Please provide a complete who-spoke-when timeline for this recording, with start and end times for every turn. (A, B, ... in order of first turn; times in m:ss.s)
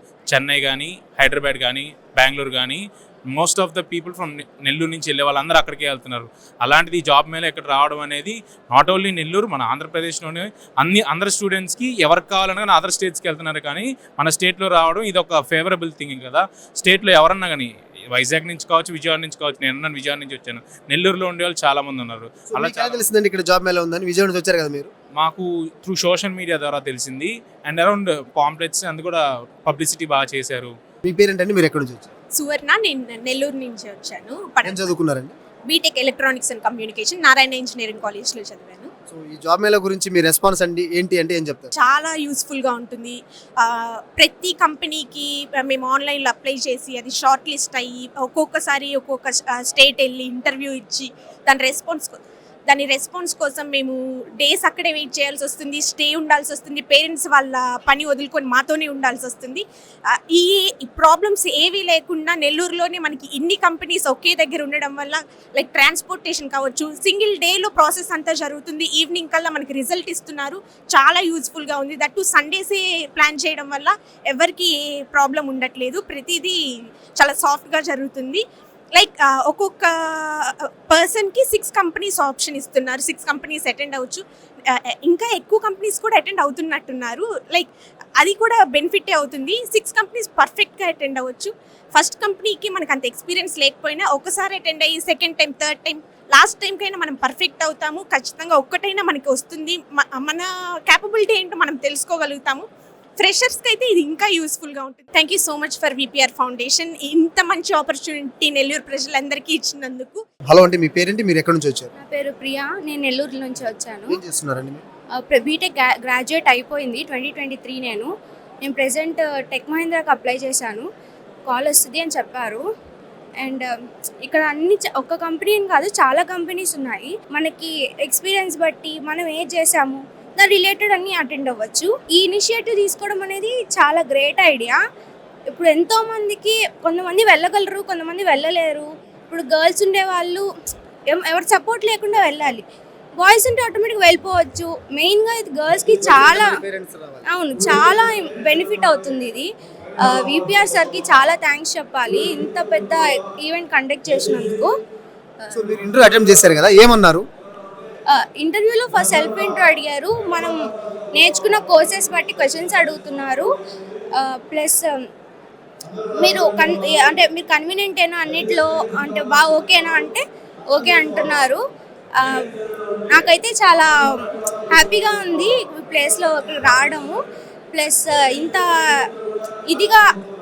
0:00.3-0:23.0 A
0:22.5-0:24.9 B
0:25.2-0:30.7 A
0:31.0-0:32.1 B
0:32.4-0:34.9 C
0:34.6-0:35.4 B
0:35.7-0:38.9 C
0:39.1-0:41.7 B
0:41.8-1:16.6 C
1:17.2-1:18.4 C
1:19.0-1:42.7 C
1:43.2-1:50.2 C
1:50.5-1:51.9 B
1:52.1-1:54.2 D
1:54.1-1:54.8 B
1:55.3-1:58.0 D
1:58.7-2:00.8 D
2:01.5-2:02.6 D
2:04.3-2:14.7 D
2:15.6-2:20.4 D
2:21.2-2:22.6 D
2:23.2-2:26.5 D
2:26.0-2:27.3 B
2:27.4-2:29.4 D
2:30.2-2:33.0 D
2:33.5-2:34.6 D
2:35.5-2:37.2 B
2:38.2-2:40.6 D
2:41.2-2:43.4 D
2:44.5-2:44.8 D
2:46.2-2:50.2 D
2:50.7-2:51.6 D
2:53.2-2:53.9 D
2:54.7-2:57.1 D
2:57.7-2:58.6 D
2:59.7-3:00.0 D